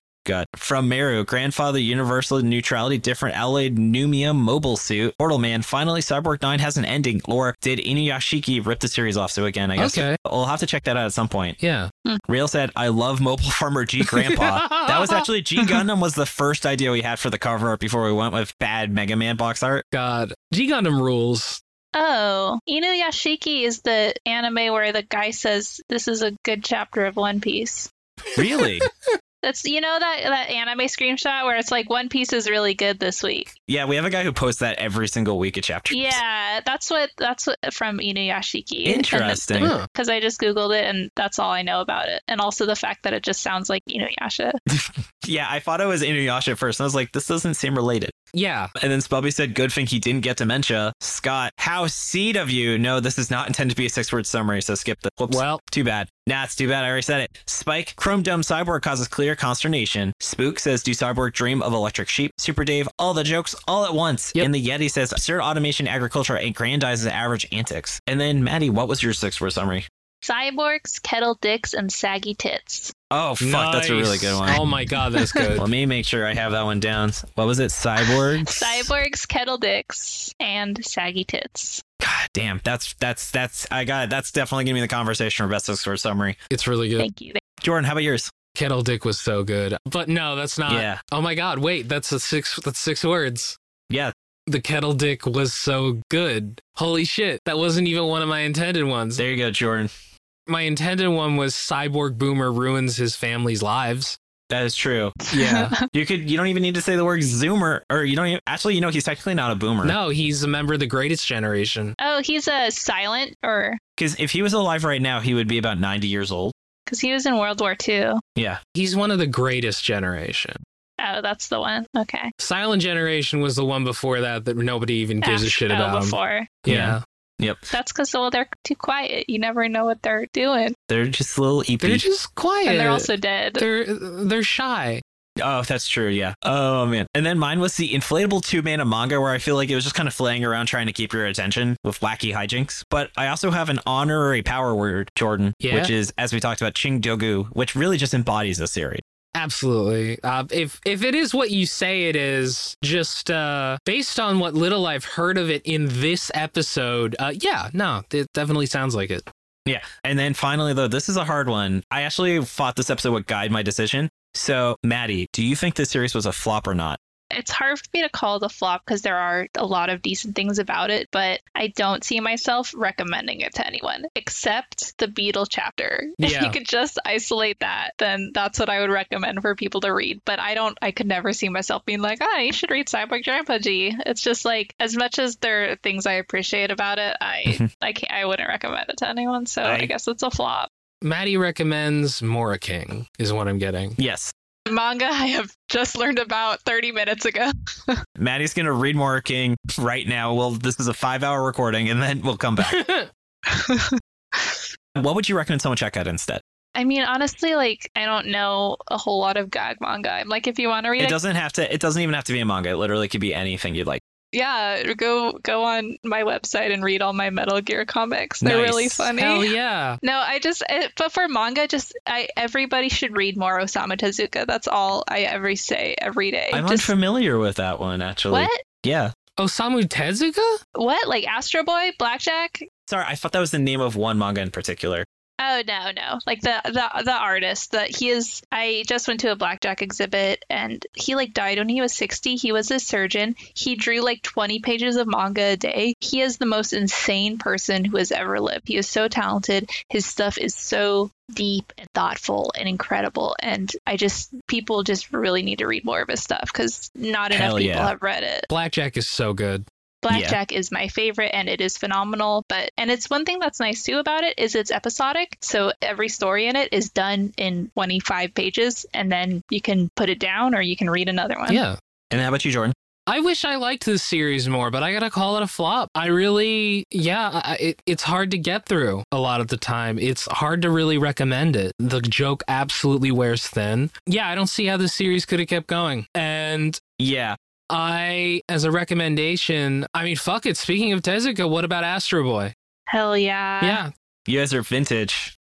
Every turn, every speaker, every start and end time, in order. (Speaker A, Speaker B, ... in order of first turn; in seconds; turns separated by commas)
Speaker A: 0.3-11.6, Speaker B: 9.8-10.2, Speaker B: 11.6-11.9, Speaker A: 12.3-19.8, Speaker B: 14.0-15.8, Speaker B: 19.9-21.6, Speaker C: 21.9-27.9, Speaker A: 28.4-28.9, Speaker B: 28.4-28.9, Speaker C: 29.4-33.5, Speaker A: 33.7-36.2, Speaker C: 35.9-44.6, Speaker A: 38.9-39.7, Speaker B: 39.6-39.9, Speaker A: 44.7-48.1, Speaker B: 48.3-48.7, Speaker A: 48.8-69.9, Speaker B: 55.3-55.6, Speaker C: 70.2-72.9, Speaker A: 73.1-74.6, Speaker B: 73.4-75.7, Speaker C: 75.2-75.5, Speaker A: 75.5-78.9, Speaker C: 78.0-81.8, Speaker A: 82.0-86.4, Speaker B: 86.5-87.1, Speaker C: 87.0-87.4, Speaker A: 87.6-88.3, Speaker B: 88.5-93.6, Speaker A: 90.7-91.0, Speaker B: 94.5-99.2, Speaker A: 99.2-99.9, Speaker B: 100.5-104.2, Speaker A: 104.5-110.0, Speaker C: 105.3-105.8, Speaker B: 105.4-105.7, Speaker B: 109.8-112.0, Speaker C: 112.0-113.8, Speaker A: 114.0-116.5, Speaker C: 116.9-118.2, Speaker B: 118.8-120.6, Speaker C: 121.0-122.3, Speaker B: 122.4-127.0, Speaker C: 125.2-126.5, Speaker A: 126.7-127.7, Speaker C: 127.7-130.8, Speaker A: 130.9-132.1, Speaker B: 131.8-135.0, Speaker C: 132.7-133.7, Speaker A: 135.4-149.0, Speaker B: 145.6-145.9, Speaker B: 149.4-159.3, Speaker A: 159.7-167.0, Speaker C: 167.3-190.7, Speaker B: 176.2-176.6, Speaker A: 189.6-189.9, Speaker B: 191.0-194.0, Speaker A: 194.0-194.3, Speaker C: 194.7-198.0, Speaker A: 198.2-202.8, Speaker B: 202.6-203.1, Speaker C: 203.5-204.6, Speaker A: 205.0-206.4, Speaker C: 206.8-211.2, Speaker A: 211.0-214.0, Speaker C: 214.3-226.9, Speaker A: 218.4-219.1, Speaker B: 219.2-220.0, Speaker A: 226.5-229.1, Speaker C: 228.3-228.6, Speaker B: 229.4-230.6, Speaker C: 230.8-232.7, Speaker A: 232.9-235.1, Speaker C: 235.4-258.5, Speaker A: 257.3-257.9, Speaker B: 258.5-259.7, Speaker C: 260.0-271.6, Speaker A: 260.1-260.4, Speaker B: 271.5-271.8, Speaker A: 272.1-272.7, Speaker B: 273.1-286.8, Speaker A: 287.0-287.4, Speaker B: 287.7-292.5, Speaker C: 292.9-293.8, Speaker B: 293.6-293.9, Speaker A: 294.3-295.3